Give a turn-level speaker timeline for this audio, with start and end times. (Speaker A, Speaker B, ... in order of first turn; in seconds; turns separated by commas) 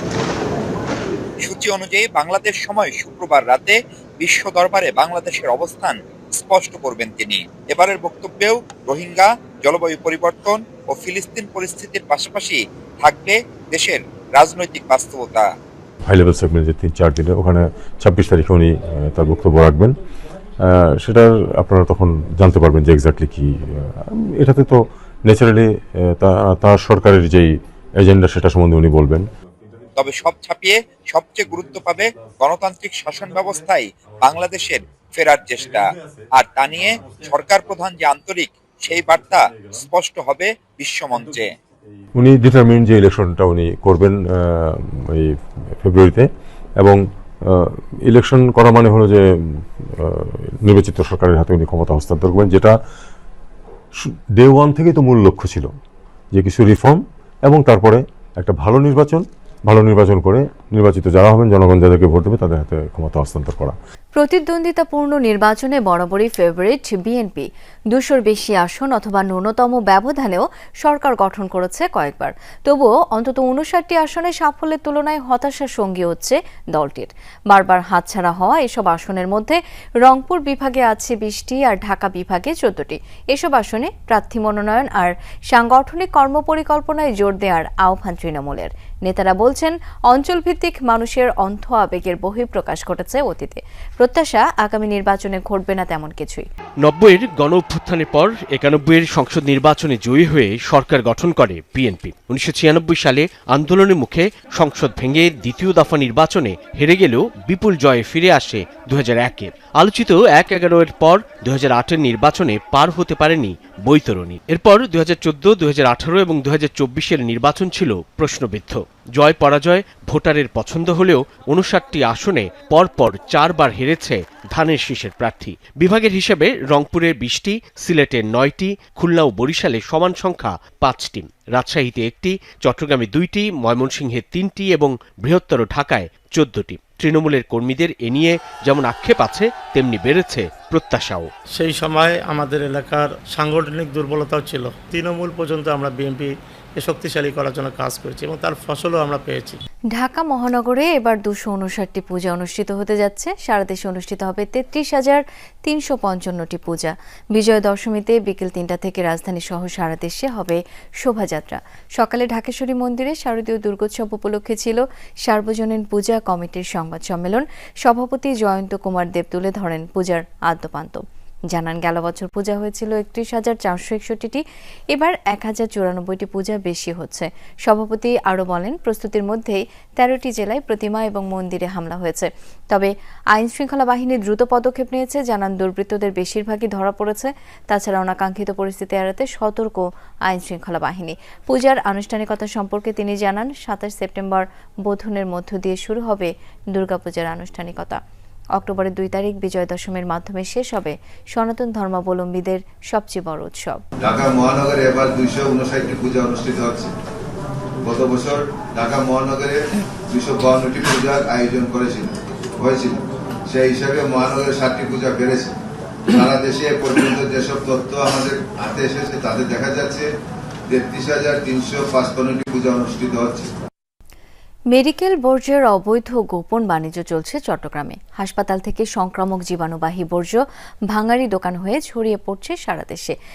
Speaker A: 1.4-15.5, Speaker B: 16.1-20.0, Speaker B: 20.6-29.3, Speaker A: 30.1-35.9, Speaker A: 36.4-41.5, Speaker B: 42.2-52.8, Speaker B: 54.0-55.7, Speaker B: 56.3-63.8, Speaker C: 64.2-96.5, Speaker D: 96.8-141.3, Speaker E: 141.5-149.6, Speaker C: 150.0-198.0, Speaker C: 198.6-203.8, Speaker F: 204.0-206.9, Speaker F: 207.8-215.6, Speaker F: 216.1-220.1, Speaker F: 220.7-223.5, Speaker C: 224.7-233.2